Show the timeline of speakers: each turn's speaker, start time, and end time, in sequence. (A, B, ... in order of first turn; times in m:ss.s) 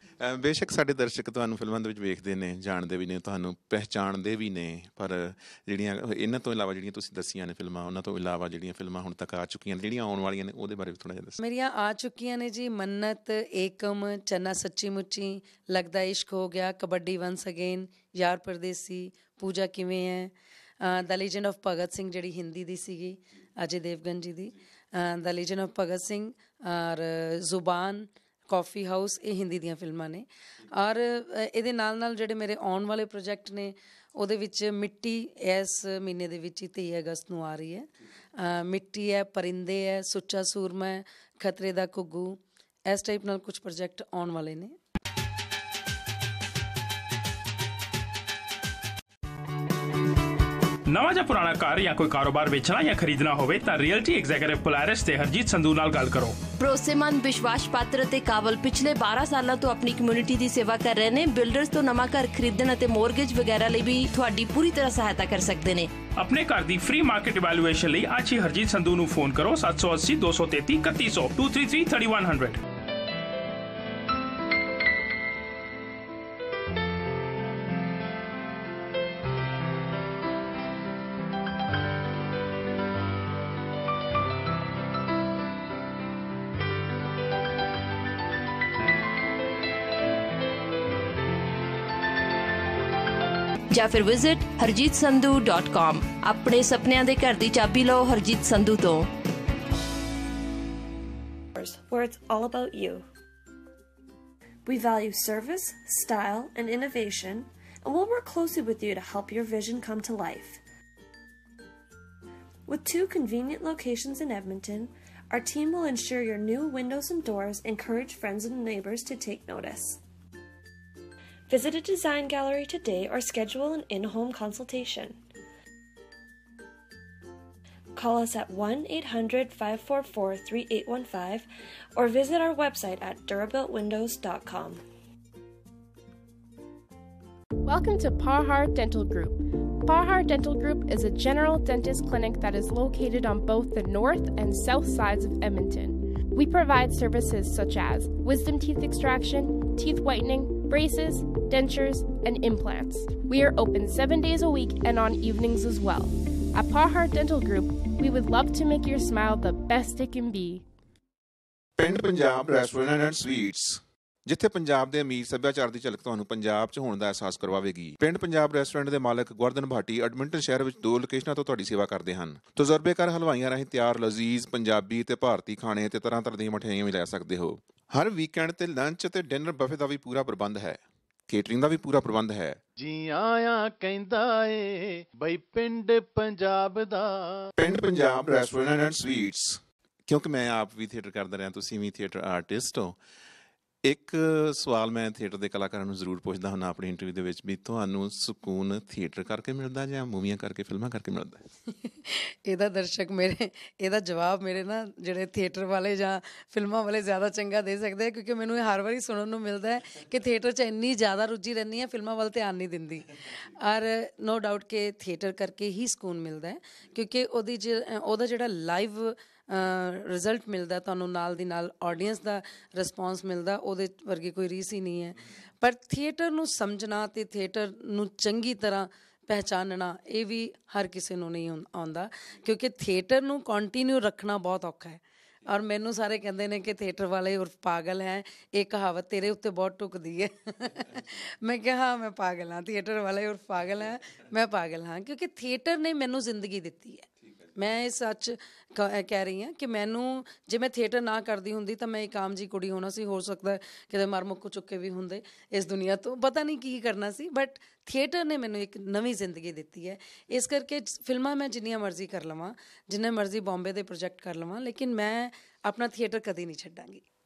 0:00.2-0:11.4 A
0:11.4-0:44.8 B
0:50.9-0:56.4 C
0:56.6-1:05.9 D
1:06.2-1:12.6 C
1:33.7-1:39.1 D
1:41.6-1:43.1 E
1:44.7-1:50.6 E
1:52.7-2:00.0 E
2:01.5-2:05.2 E
2:08.0-2:14.8 E
2:17.6-2:40.6 F
2:41.8-3:02.6 A
3:02.8-3:07.5 G
3:07.6-3:13.0 A
3:13.8-3:21.4 A
3:21.8-4:27.0 B